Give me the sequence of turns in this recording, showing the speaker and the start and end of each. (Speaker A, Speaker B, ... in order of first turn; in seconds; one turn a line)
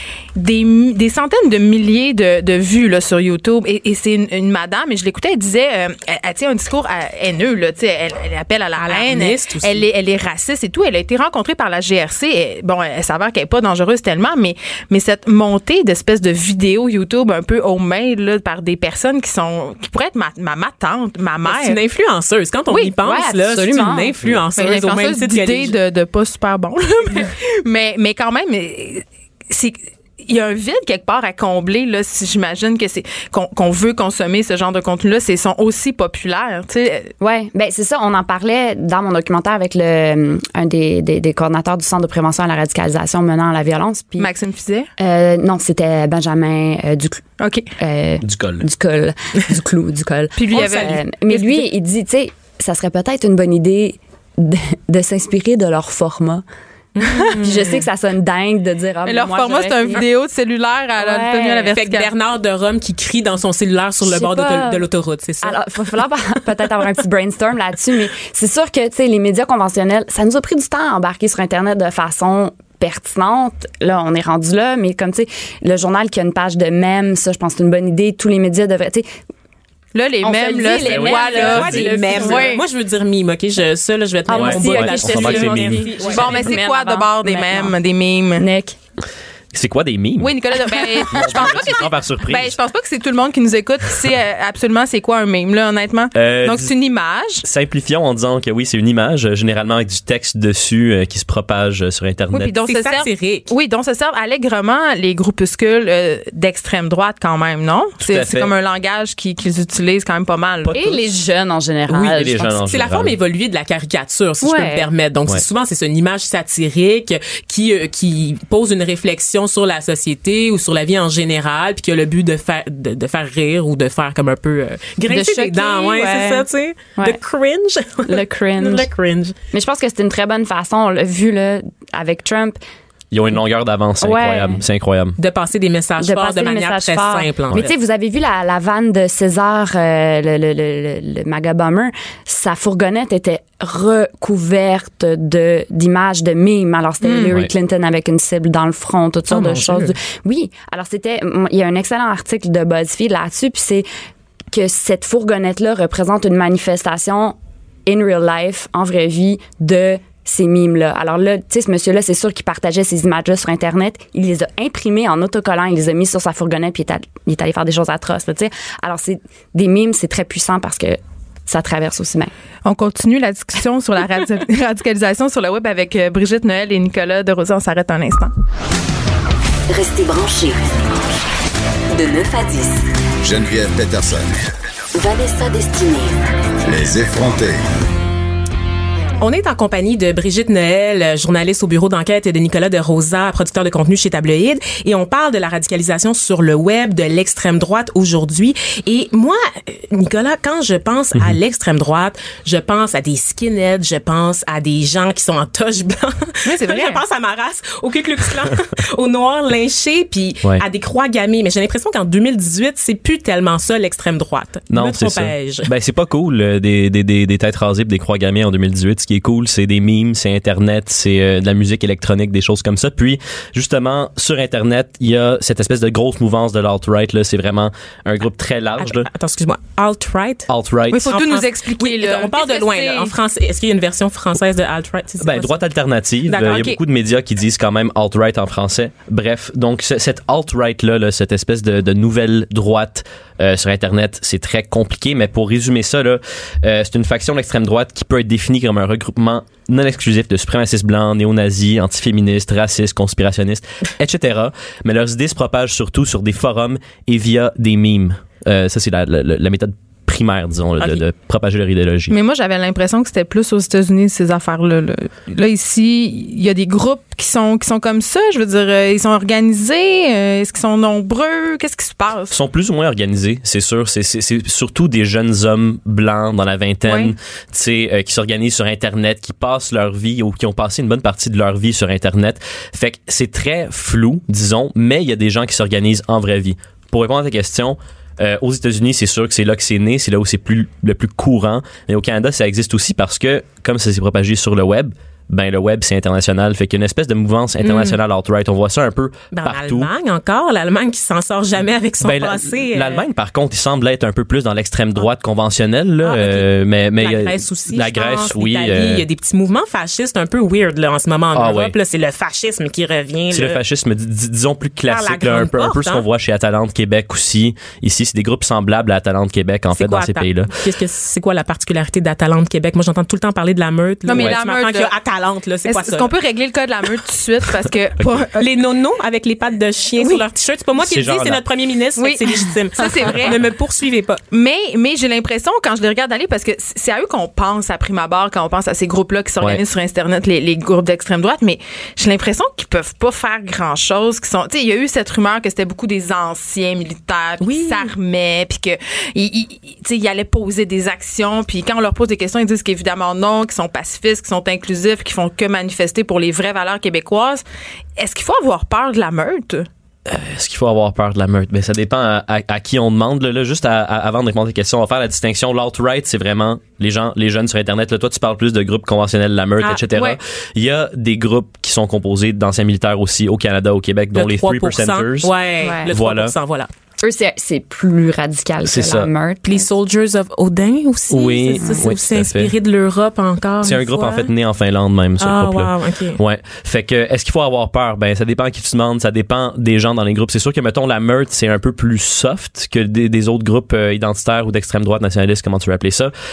Speaker A: 0.3-21.8
Speaker B: 8.8-9.9
Speaker B: 21.4-25.8
Speaker C: 23.0-24.1
Speaker A: 24.6-37.1
Speaker C: 37.2-44.3
Speaker A: 44.2-44.9
Speaker C: 45.0-47.2
Speaker A: 47.4-47.7
Speaker C: 47.8-56.4
Speaker D: 48.2-48.6
Speaker A: 50.4-51.0
Speaker B: 50.5-51.7
Speaker B: 57.0-57.5
Speaker A: 57.0-57.8
Speaker C: 57.4-60.0
Speaker A: 59.0-62.1
Speaker C: 61.0-61.8
Speaker B: 61.7-65.6
Speaker C: 64.0-64.8
Speaker C: 65.4-79.1
Speaker A: 79.9-82.6
Speaker C: 80.2-82.6
Speaker D: 80.8-81.8
Speaker B: 80.9-86.6
Speaker C: 84.3-87.7
Speaker D: 84.3-85.8
Speaker A: 85.0-85.5
Speaker A: 86.0-88.5
Speaker C: 88.3-88.8
Speaker D: 89.5-90.3
Speaker A: 90.2-97.4
Speaker C: 90.7-91.5
Speaker D: 91.1-92.6
Speaker D: 96.1-96.7
Speaker D: 97.4-102.5
Speaker A: 102.3-111.0
Speaker B: 102.6-103.5
Speaker D: 108.0-108.5
Speaker C: 110.7-112.6
Speaker D: 112.0-113.1
Speaker B: 112.6-129.3
Speaker C: 114.4-114.9
Speaker C: 125.1-126.5
Speaker C: 128.1-128.9
Speaker C: 129.5-132.6
Speaker D: 133.1-135.2
Speaker C: 134.0-134.6
Speaker B: 135.2-137.7
Speaker C: 136.0-153.9
Speaker A: 147.0-147.3
Speaker B: 149.3-149.9
Speaker C: 154.5-172.3
Speaker A: 172.6-178.3
Speaker E: 179.7-180.7
Speaker E: 181.9-182.9
Speaker F: 183.2-184.3
Speaker E: 184.9-186.2
Speaker F: 186.7-187.6
Speaker B: 189.2-215.7
Speaker A: 206.4-207.0
Speaker D: 214.7-229.1
Speaker B: 228.8-230.5
Speaker D: 230.5-231.0
Speaker A: 230.9-233.1
Speaker B: 231.0-235.6
Speaker D: 235.2-262.2
Speaker B: 236.3-236.8
Speaker A: 262.1-272.3
Speaker D: 272.3-299.9
Speaker A: 276.9-277.1
Speaker B: 297.6-298.0
Speaker B: 299.3-303.0
Speaker D: 302.0-309.0
Speaker B: 306.0-313.6
Speaker D: 311.3-311.7
Speaker D: 313.3-320.5
Speaker B: 314.9-316.0
Speaker B: 319.7-326.1
Speaker A: 324.1-324.9
Speaker A: 325.6-328.5
Speaker D: 328.0-328.2
Speaker B: 328.4-334.2
Speaker D: 330.8-331.4
Speaker A: 332.0-333.4
Speaker A: 334.3-357.4
Speaker B: 347.4-347.9
Speaker A: 358.0-359.7
Speaker D: 360.1-375.3
Speaker A: 369.9-370.2
Speaker B: 374.1-376.7
Speaker C: 375.6-375.9
Speaker D: 375.9-376.3
Speaker C: 377.0-379.7
Speaker D: 378.6-379.1
Speaker B: 379.4-384.3
Speaker D: 381.1-382.5
Speaker C: 381.6-381.9
Speaker D: 383.6-396.1
Speaker B: 385.2-386.2